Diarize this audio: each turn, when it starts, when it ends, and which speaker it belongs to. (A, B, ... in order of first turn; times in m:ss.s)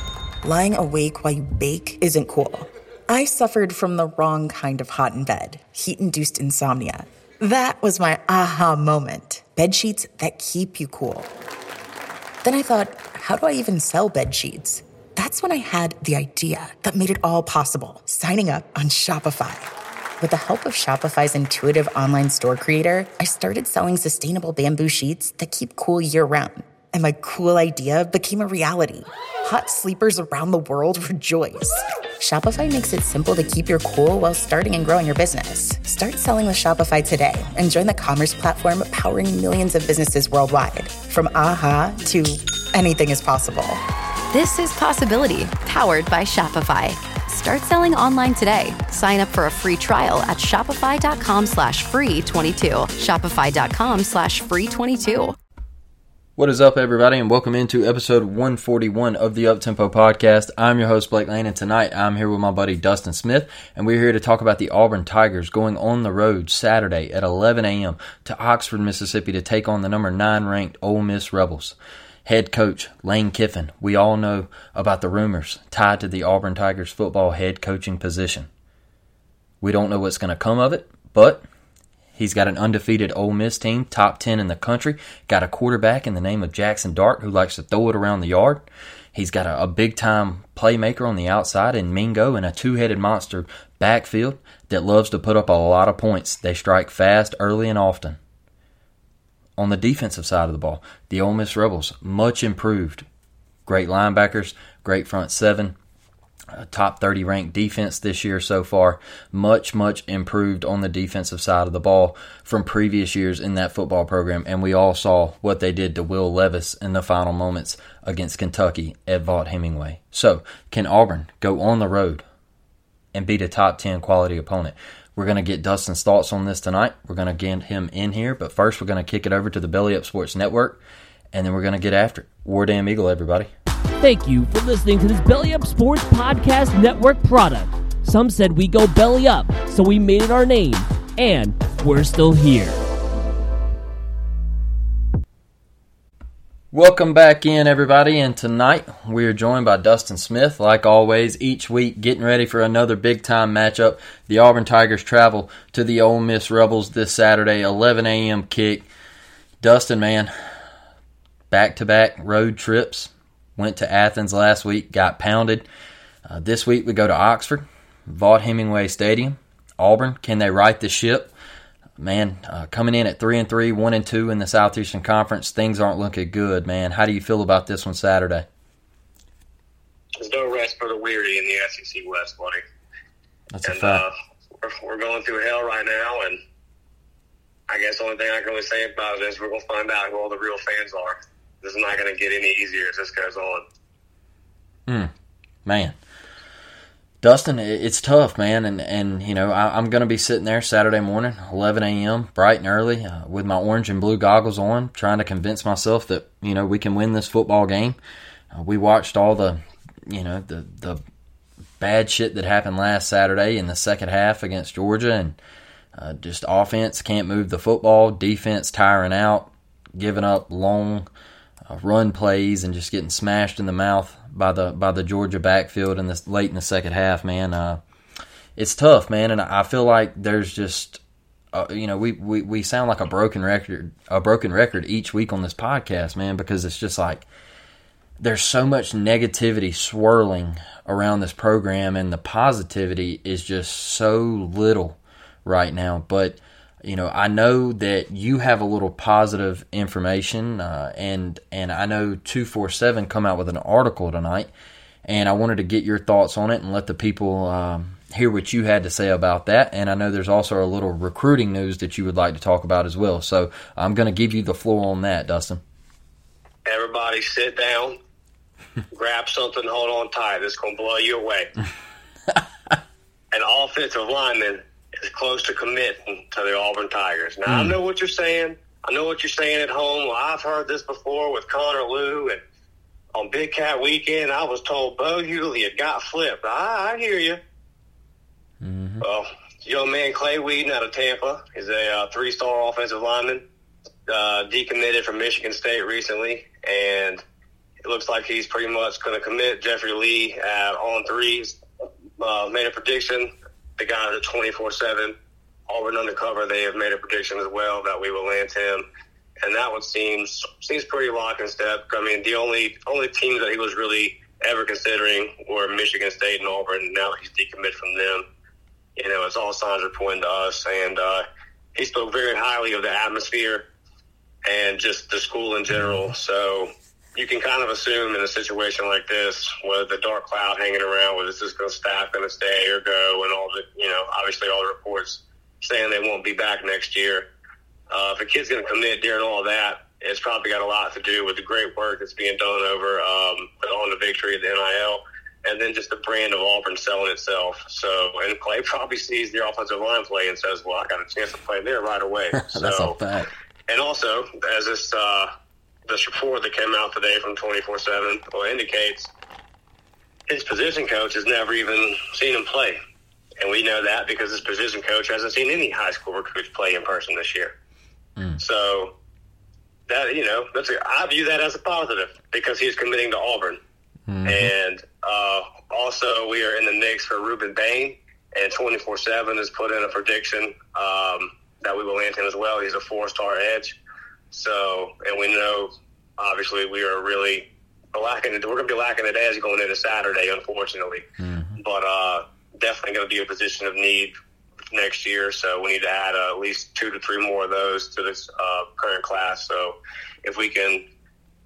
0:00.4-0:11.3 A
0:12.4-0:43.8 A
0:44.3-0:55.4 B
0:56.4-1:18.5 C
1:19.6-1:21.4 C
1:22.2-1:38.2 C
1:39.6-1:43.1 C
1:43.7-1:45.8 C
1:46.5-2:02.2 C
2:03.1-2:10.8 C
2:11.3-2:13.5 C
2:14.0-2:22.8 D
2:26.7-2:38.9 C
2:39.6-2:40.3 C
2:41.5-2:45.7 C
2:46.3-2:51.3 C
2:52.0-2:58.5 C
3:00.2-3:02.6 E
3:03.5-3:04.0 C
3:03.6-3:06.4 E
3:07.7-3:13.6 E
3:14.9-3:15.1 C
3:15.6-3:16.0 C
3:17.2-3:28.0 C
3:28.5-3:31.0 C
3:31.8-3:35.4 C
3:36.0-3:41.1 C
3:41.7-3:47.8 C
3:48.6-3:51.0 C
3:51.5-3:57.2 C
3:58.2-4:14.5 C
4:15.0-4:25.6 C
4:26.7-4:28.0 E
4:28.9-4:31.5 E
4:33.3-4:42.4 E
4:37.5-4:37.8 C
4:43.2-4:47.4 E
4:48.6-4:49.0 C
4:49.0-4:53.4 E
4:54.1-4:57.2 E
4:57.8-5:01.6 E
5:02.2-5:05.2 E
5:05.7-5:08.8 E
5:09.4-5:18.2 E
5:19.0-5:21.2 E
5:21.8-5:23.7 E
5:24.5-5:37.3 E
5:25.8-5:26.0 C
5:37.9-5:53.0 E
5:52.3-5:53.3 C
5:53.7-5:55.3 E
5:55.9-5:59.1 E
6:00.3-6:02.8 E
6:03.4-6:07.6 E
6:08.4-6:08.9 E
6:09.9-6:13.6 E
6:14.1-6:14.5 C
6:14.2-6:23.8 E
6:24.3-6:31.0 E
6:31.2-6:31.6 C
6:31.6-6:34.1 E
6:34.7-6:40.8 E